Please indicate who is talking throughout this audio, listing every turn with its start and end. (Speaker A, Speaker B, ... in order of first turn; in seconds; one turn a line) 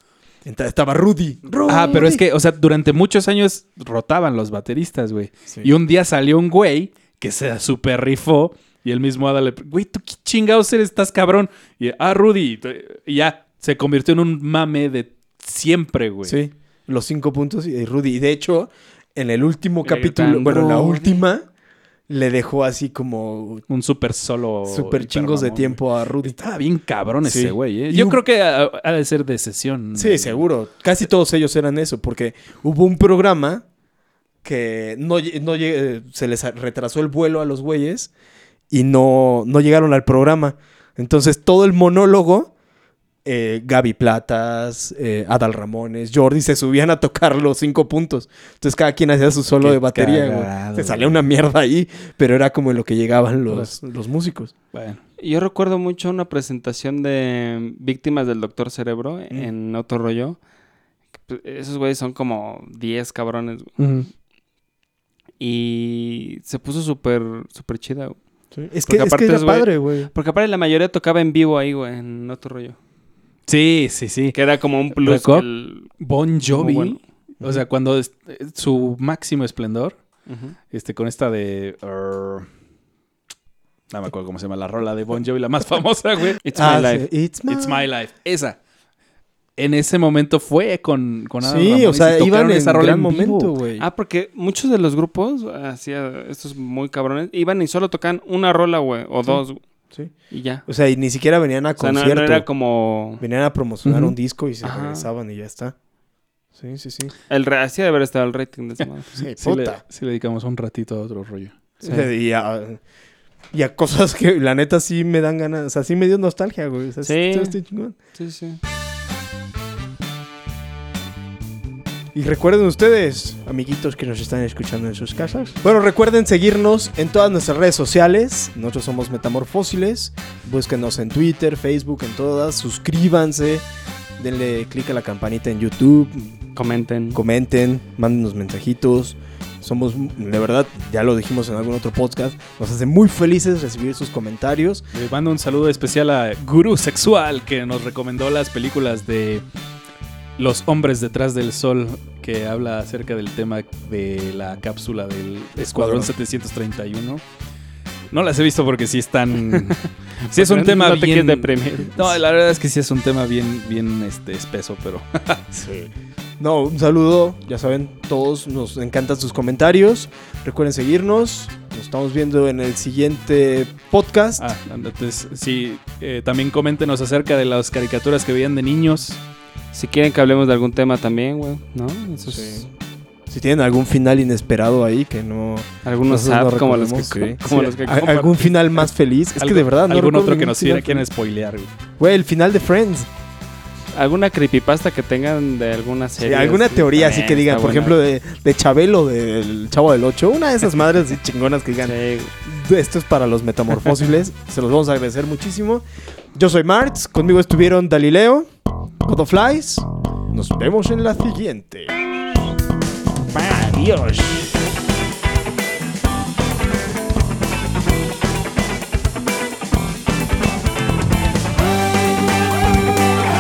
Speaker A: 0.5-2.2
Speaker B: 1.7-16.4
Speaker A: 16.3-21.5
Speaker C: 19.8-21.2
Speaker A: 22.1-23.6
Speaker B: 23.7-30.4
Speaker A: 24.7-26.4
Speaker A: 27.2-28.2
Speaker A: 29.9-33.6
Speaker A: 34.4-38.1
Speaker A: 38.7-42.5
Speaker A: 43.2-54.5
Speaker B: 49.6-51.2
Speaker B: 53.5-53.8
Speaker B: 54.7-55.0
Speaker C: 55.2-60.4
Speaker C: 61.3-63.7
Speaker B: 63.8-64.1
Speaker C: 65.4-68.2
Speaker A: 68.5-70.1
Speaker C: 68.9-72.8
Speaker B: 73.5-74.4
Speaker C: 74.3-76.0
Speaker B: 75.0-75.5
Speaker B: 76.0-80.0
Speaker C: 76.5-77.0
Speaker C: 80.3-80.6
Speaker B: 80.7-82.5
Speaker B: 83.9-86.4
Speaker C: 86.4-87.1
Speaker A: 86.6-87.8
Speaker B: 87.5-88.6
Speaker B: 89.6-93.5
Speaker A: 91.4-93.8
Speaker C: 93.8-99.6
Speaker C: 100.3-100.7
Speaker A: 100.7-102.5
Speaker C: 101.8-103.2
Speaker A: 103.2-105.8
Speaker B: 103.8-104.1
Speaker C: 104.6-105.1
Speaker A: 106.5-107.1
Speaker C: 107.3-109.3
Speaker A: 109.2-109.8
Speaker B: 109.4-111.5
Speaker C: 111.8-112.1
Speaker A: 111.8-112.8
Speaker A: 113.5-118.0
Speaker C: 117.0-117.6
Speaker C: 118.1-118.6
Speaker A: 122.1-133.7
Speaker A: 134.2-136.4
Speaker C: 136.6-137.2
Speaker A: 137.2-144.8
Speaker B: 144.9-149.4
Speaker B: 150.4-157.2
Speaker A: 155.6-156.1
Speaker B: 158.1-159.8
Speaker C: 159.4-162.2
Speaker B: 160.3-165.4
Speaker A: 165.5-174.5
Speaker B: 174.4-179.2
Speaker C: 179.7-182.7
Speaker A: 182.3-182.7
Speaker A: 183.3-191.1
Speaker C: 185.8-188.6
Speaker B: 189.4-191.7
Speaker A: 192.0-193.1
Speaker C: 193.9-198.0
Speaker A: 196.2-201.9
Speaker C: 201.8-202.3
Speaker A: 202.4-208.5
Speaker A: 209.0-211.9
Speaker A: 213.3-214.6